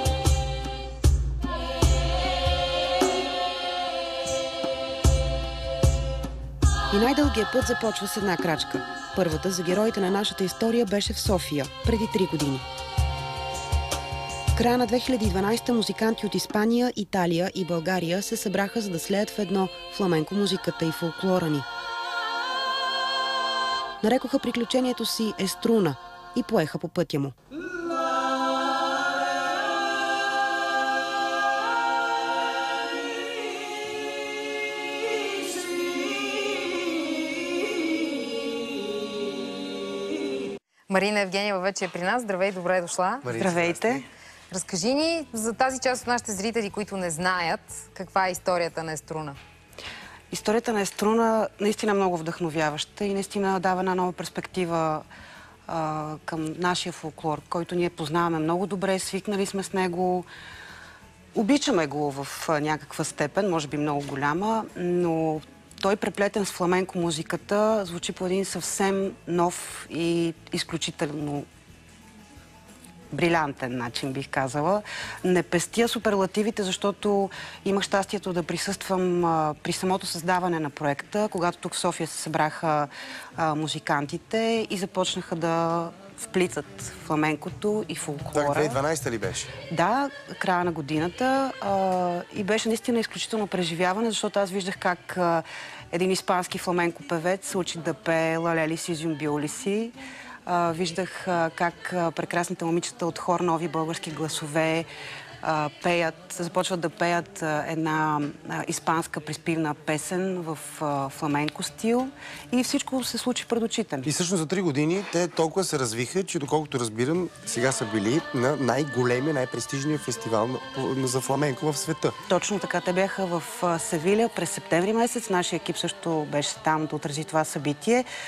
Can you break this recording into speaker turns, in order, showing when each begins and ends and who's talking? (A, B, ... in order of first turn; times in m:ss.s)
0:06.9-0:12.6 A
0:14.6-0:21.7 A
0:24.0-0:27.3 A
0:40.9-0:43.3 B
0:43.2-0:44.0 C
0:43.3-0:44.0 A
0:44.5-0:49.4 B
0:50.3-0:55.0 A
0:55.7-1:00.2 A
1:01.3-1:11.5 A
1:13.1-1:28.8 A
1:28.3-1:29.5 C
1:29.7-1:44.9 A
1:45.4-1:54.1 A
1:54.0-2:02.2 C
2:02.3-2:08.1 A